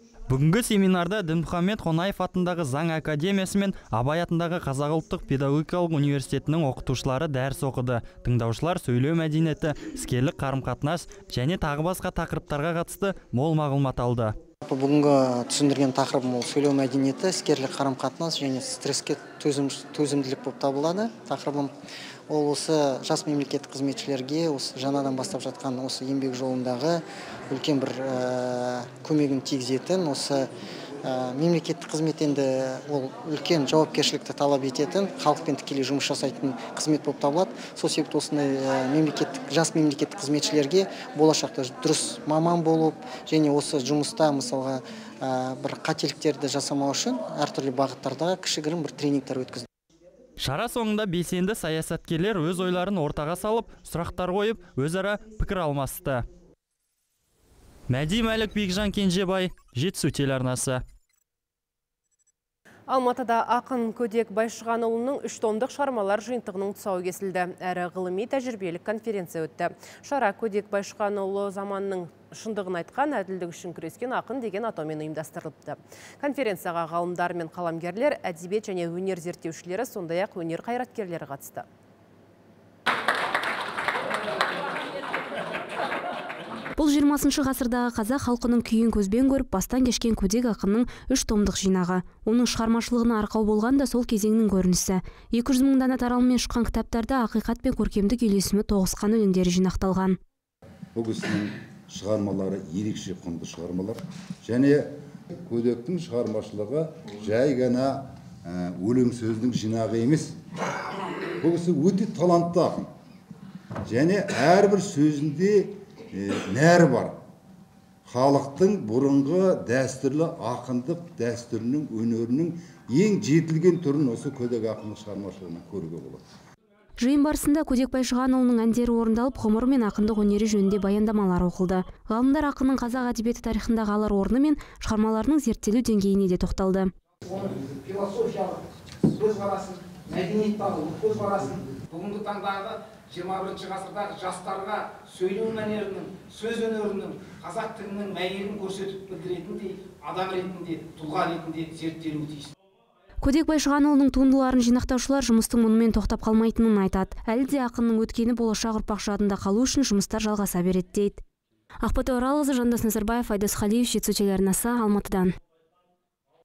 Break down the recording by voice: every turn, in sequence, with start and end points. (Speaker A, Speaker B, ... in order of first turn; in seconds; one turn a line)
Speaker A: 0.3-14.3
Speaker B: 14.6-21.7
Speaker B: 22.3-30.5
Speaker B: 31.0-49.6
Speaker A: 50.4-56.2
Speaker A: 57.9-60.8
Speaker C: 62.9-81.7
Speaker D: 86.8-100.2
Speaker E: 100.9-104.9
Speaker E: 105.4-110.3
Speaker E: 111.4-112.9
Speaker E: 113.9-117.2
Speaker E: 118.1-126.2
Speaker D: 127.0-136.9
Speaker F: 137.3-138.6
Speaker F: 139.2-152.5
Speaker D: 153.2-161.2
Speaker D: 161.8-165.3